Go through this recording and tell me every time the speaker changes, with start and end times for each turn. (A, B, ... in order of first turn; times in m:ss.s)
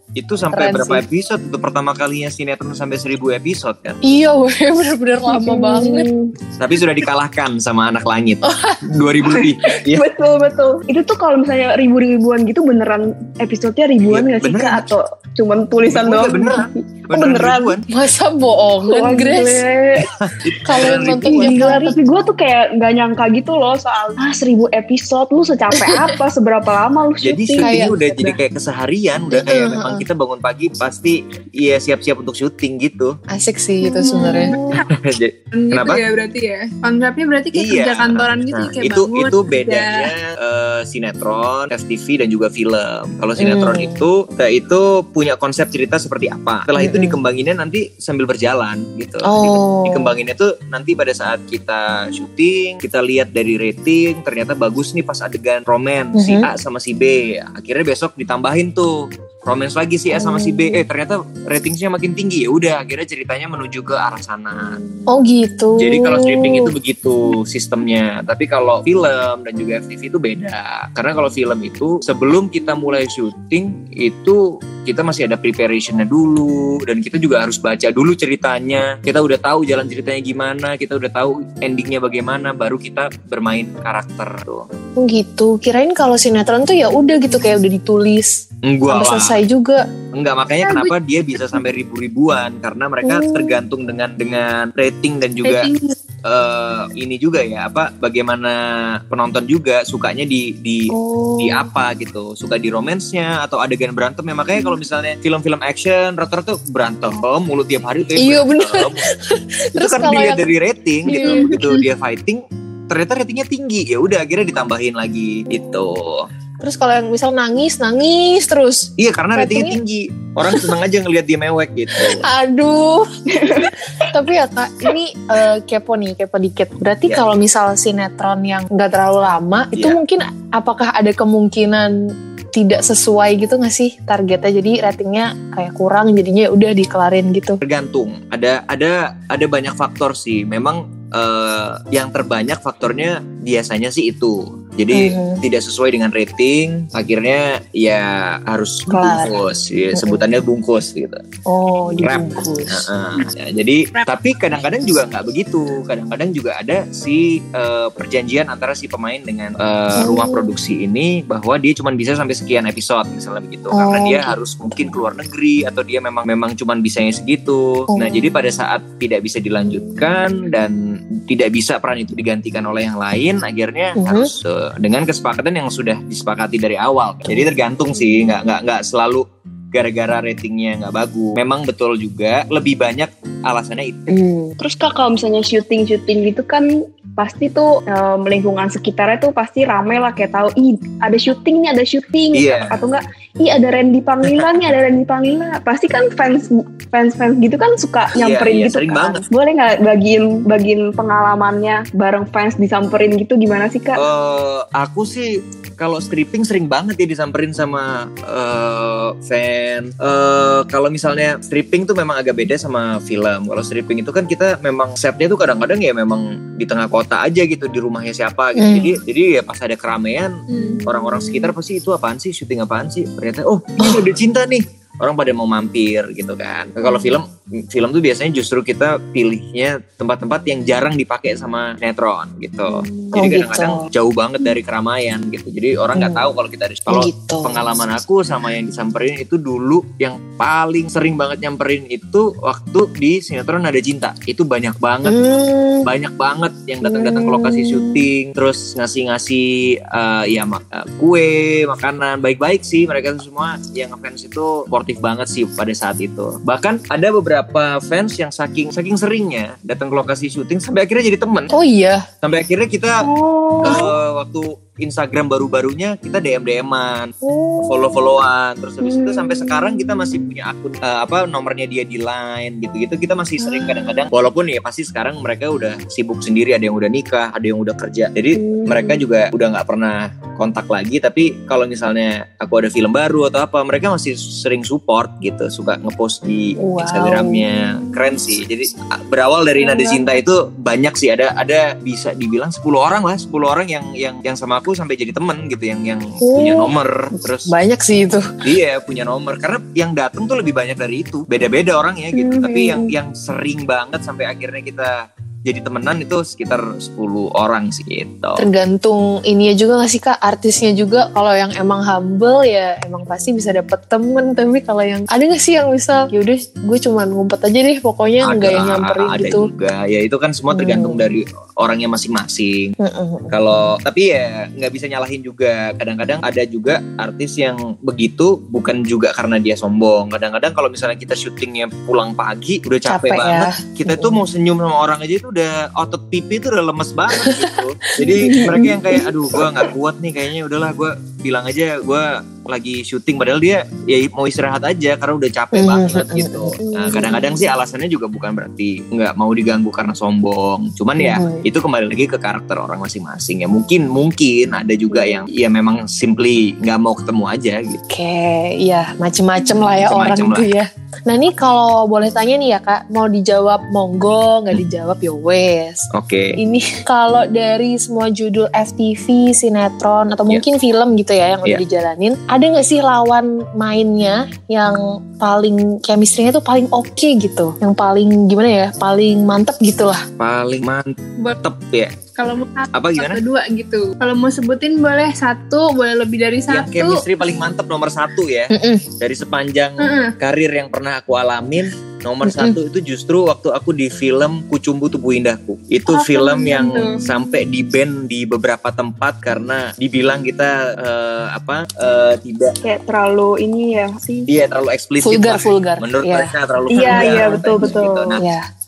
0:00.2-0:04.0 A
0:00.5-0:01.0 B
0:04.0-0:06.1 B
0:05.3-0:06.3 C
0:06.6-0:10.1 A
0:08.4-0:08.8 B
0:09.3-0:17.8 C
0:14.0-0:14.9 A
0:15.9-0:17.8 A
0:17.9-0:19.6 B
0:18.9-0:20.1 C
0:20.1-0:21.7 A
0:20.6-0:22.0 B
0:20.8-0:28.4 C
0:27.2-0:33.2 A
0:27.6-0:27.9 B
0:29.3-0:30.0 B
0:33.3-0:34.6 B
0:34.0-0:34.8 D
0:34.0-0:34.8 C
0:34.7-0:36.0 A
0:35.5-0:40.1 D
0:37.5-1:04.8 A
0:43.4-0:44.0 B
0:46.8-0:47.2 B
0:49.2-0:50.2 B
0:56.1-0:56.5 B
1:00.1-1:00.8 B
1:05.1-1:06.7 B
1:05.8-1:24.7 A
1:25.0-1:29.8 B
1:28.6-1:29.4 A
1:30.1-1:35.7 A
1:30.6-1:30.9 D
1:33.0-1:33.6 B
1:35.4-1:35.9 D
1:36.2-1:49.1 A
1:40.9-1:41.7 B
1:48.2-1:50.5 B
1:49.8-1:56.3 A
1:51.0-1:51.5 B
1:51.1-1:51.8 D
1:56.6-1:59.8 B
1:59.0-2:02.2 A
2:01.9-2:12.0 B
2:03.3-2:03.7 C
2:09.7-2:10.0 A
2:12.5-2:17.6 B
2:17.6-2:31.2 A
2:24.9-2:25.4 B
2:28.9-2:29.4 B
2:29.9-2:30.2 B
2:31.4-2:32.9 B
2:31.9-3:04.1 A
2:40.0-2:40.6 B
2:43.7-2:44.4 B
2:47.9-2:48.4 B
2:54.0-2:54.3 B
2:57.3-2:57.5 B
3:04.1-3:04.6 B
3:04.6-3:24.0 C
3:12.3-3:12.8 A
3:14.2-3:14.6 A
3:18.1-3:19.2 A
3:23.9-4:05.2 A
3:38.6-3:39.0 B
3:40.5-3:40.8 D
3:43.8-3:44.1 B
3:46.8-3:47.1 B
3:52.7-3:53.9 B
3:55.9-3:56.3 B
3:56.9-3:57.6 B
4:05.0-4:05.9 B
4:05.8-4:21.5 A
4:06.9-4:07.9 B
4:21.5-4:22.0 B
4:22.2-4:23.1 A
4:23.0-4:23.9 C
4:23.6-4:27.1 A
4:27.2-4:27.8 B
4:27.6-4:57.5 A
4:28.8-4:30.3 C
4:33.7-4:34.0 C
4:38.3-4:39.0 C
4:46.6-4:47.5 B
4:56.2-4:56.7 B
4:57.5-4:58.3 B
4:58.4-5:08.4 A
5:02.1-5:02.9 C
5:08.4-5:19.5 B
5:18.2-5:22.7 A
5:20.5-5:21.1 B
5:22.8-5:23.4 B
5:23.3-5:57.8 A
5:32.9-5:34.2 B
5:37.2-5:38.8 B
5:38.0-5:39.7 C
5:45.5-5:46.6 B
5:46.6-5:47.4 C
5:51.0-5:51.4 B
5:57.9-6:20.0 B
5:59.6-6:00.5 A
6:05.9-6:06.4 A
6:20.2-6:22.0 A
6:22.2-6:27.0 D
6:22.7-6:23.2 A
6:26.5-6:42.5 A
6:28.5-6:28.8 B
6:29.8-6:30.1 D
6:32.2-6:32.6 B
6:35.9-6:37.1 D
6:42.6-6:44.3 C
6:44.2-6:48.2 A
6:45.0-6:46.3 B
6:46.7-6:48.2 C
6:46.8-6:47.5 B
6:48.2-6:48.4 B